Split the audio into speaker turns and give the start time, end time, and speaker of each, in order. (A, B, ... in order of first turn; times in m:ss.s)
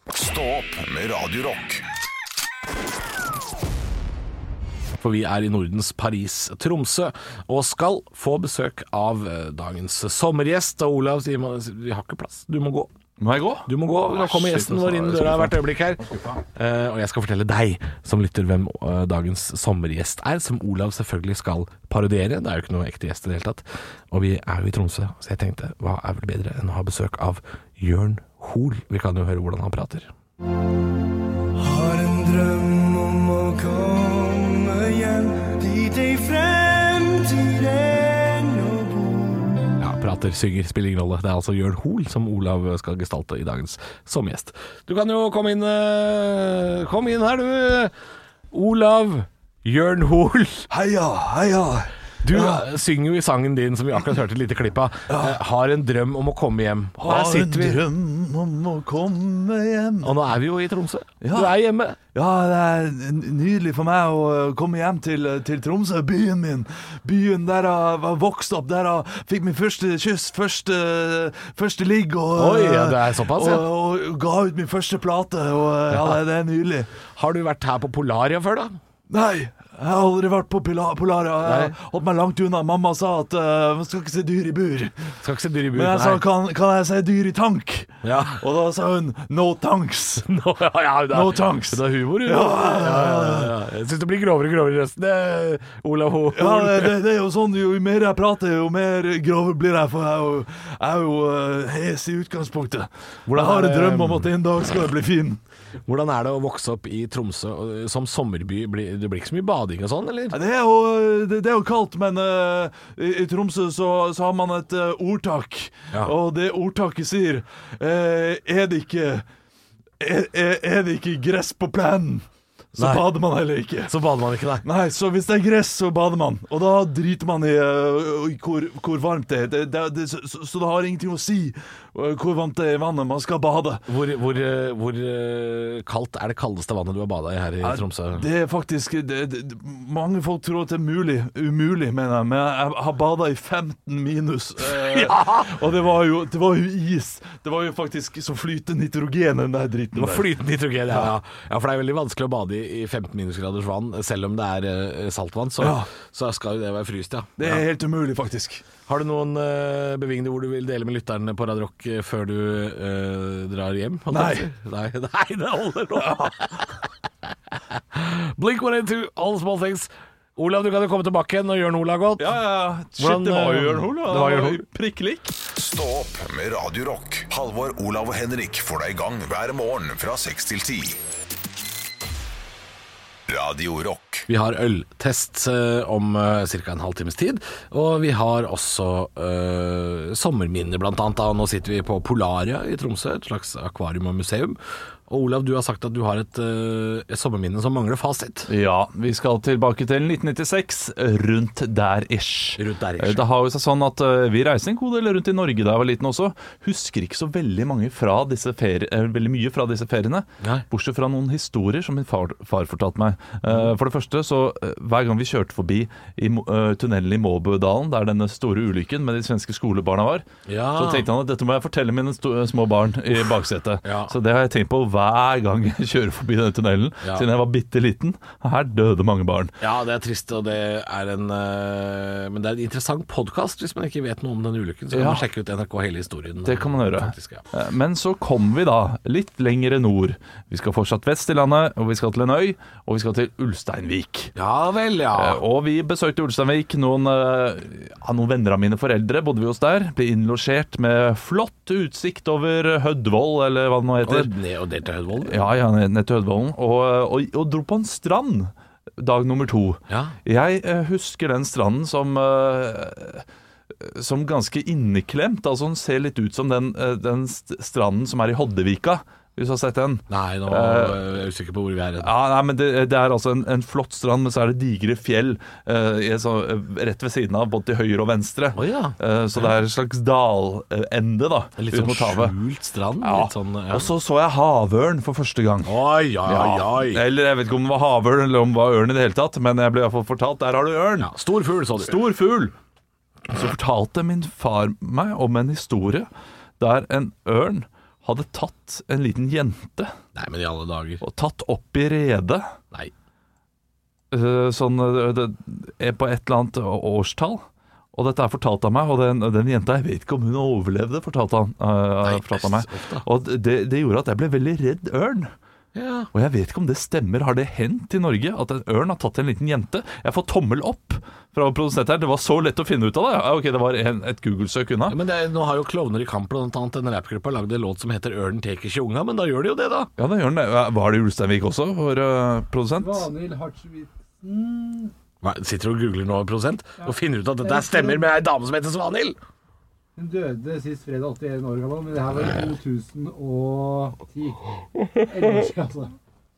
0:00.1-0:01.8 A
0:05.0-0:12.9 B
0:13.2-0:16.4 C
0:13.6-0:30.1 B
0:31.6-0:39.6 D
0:39.8-0:47.9 B
0:48.5-0:50.6 B
0:50.7-0:52.6 C
0:52.2-0:57.8 B
0:55.1-0:55.4 C
0:57.0-1:00.2 C
1:00.0-1:02.0 B
1:01.2-1:01.6 C
1:02.1-1:16.9 C
1:12.3-1:13.6 B
1:15.9-1:16.2 B
1:17.1-1:18.8 B
1:19.1-1:25.1 C
1:21.4-1:21.8 B
1:25.2-1:26.2 B
1:25.7-1:30.3 C
1:28.0-1:28.4 B
1:30.3-1:37.0 B
1:31.1-1:33.5 C
1:36.3-1:45.4 C
1:43.3-1:44.3 B
1:45.8-1:50.4 B
1:50.3-1:59.2 C
2:00.0-2:02.2 C
2:02.7-2:03.9 C
2:02.8-2:03.1 B
2:03.8-2:04.6 B
2:04.6-2:13.8 C
2:13.9-2:18.3 B
2:17.6-2:30.3 C
2:24.6-2:25.4 B
2:29.9-2:37.6 B
2:35.6-2:35.9 C
2:37.4-2:38.6 C
2:38.9-2:46.8 B
2:44.1-2:44.5 C
2:47.7-2:52.3 B
2:52.2-2:55.4 C
2:53.0-2:54.6 B
2:55.6-3:01.0 A
3:03.3-3:04.2 A
3:04.3-3:14.6 B
3:15.1-3:18.5 B
3:18.5-3:40.2 C
3:22.6-3:23.2 B
3:40.5-3:41.1 B
3:40.7-3:49.5 C
3:43.8-3:44.2 B
3:49.6-3:57.4 B
3:54.9-3:55.2 C
3:56.4-4:04.3 C
4:04.4-4:05.4 B
4:05.1-4:14.3 C
4:14.0-4:15.5 B
4:15.2-4:23.2 C
4:19.9-4:20.2 B
4:23.8-4:31.0 C
4:30.1-4:32.1 B
4:32.0-4:42.3 C
4:38.5-4:39.5 B
4:41.6-4:43.9 B
4:43.0-4:45.7 C
4:45.6-4:47.0 B
4:46.2-4:51.1 C
4:51.0-4:52.0 B
4:51.8-4:52.5 C
4:53.3-4:56.1 C
4:56.6-4:59.9 C
5:00.1-5:01.0 B
5:01.0-5:02.4 C
5:04.1-5:07.4 C
5:07.9-5:15.3 C
5:12.0-5:13.0 B
5:15.7-5:16.1 B
5:16.1-5:25.0 C
5:24.9-5:29.9 B
5:30.0-5:33.1 C
5:32.8-5:34.9 E
5:35.2-5:39.2 B
5:40.0-5:44.5 E
5:45.0-5:45.9 E